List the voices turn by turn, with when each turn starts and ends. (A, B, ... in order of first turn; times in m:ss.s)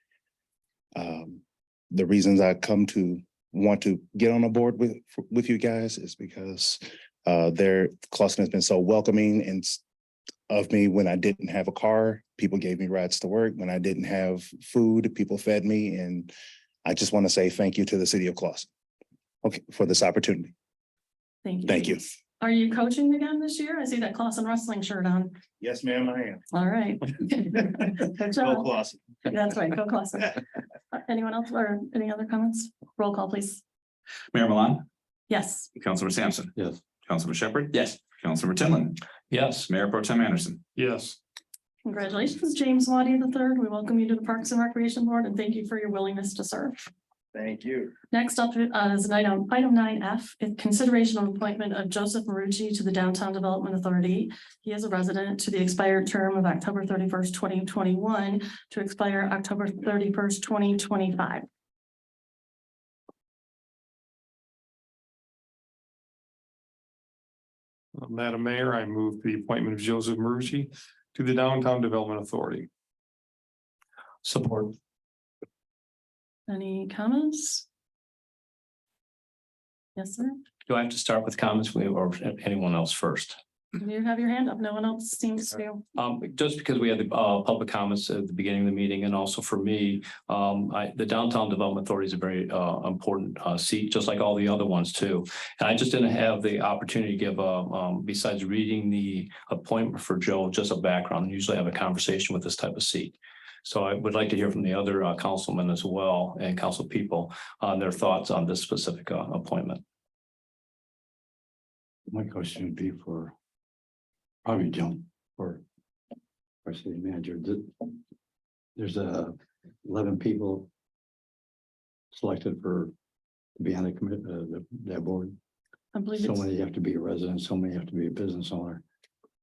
0:00.9-0:09.8 A
0:10.5-0:16.3 A
0:16.8-0:18.7 A
0:19.4-0:20.5 A
0:21.4-0:25.4 B
0:21.7-0:22.0 A
0:25.6-0:26.4 A
0:26.5-0:28.7 B
0:28.4-0:29.0 A
0:29.2-0:33.6 B
0:34.3-0:34.9 C
0:35.3-0:35.7 B
0:35.8-0:39.0 C
0:36.5-0:36.8 D
0:39.3-0:39.7 E
0:39.7-0:40.6 C
0:40.8-0:41.2 F
0:41.8-0:46.9 B
0:47.3-0:47.9 A
0:48.1-1:01.4 B
1:07.9-1:12.7 F
1:14.2-1:14.8 E
1:16.5-1:17.7 B
1:20.0-1:20.4 B
1:20.7-1:23.4 E
1:23.8-1:25.8 B
1:26.0-1:49.8 E
1:52.1-1:53.3 D
1:54.4-1:55.6 D
1:56.6-1:58.0 D
1:58.8-2:00.7 D
2:02.1-2:02.9 D
2:03.6-2:05.4 D
2:05.9-2:06.5 B
2:06.1-2:08.8 D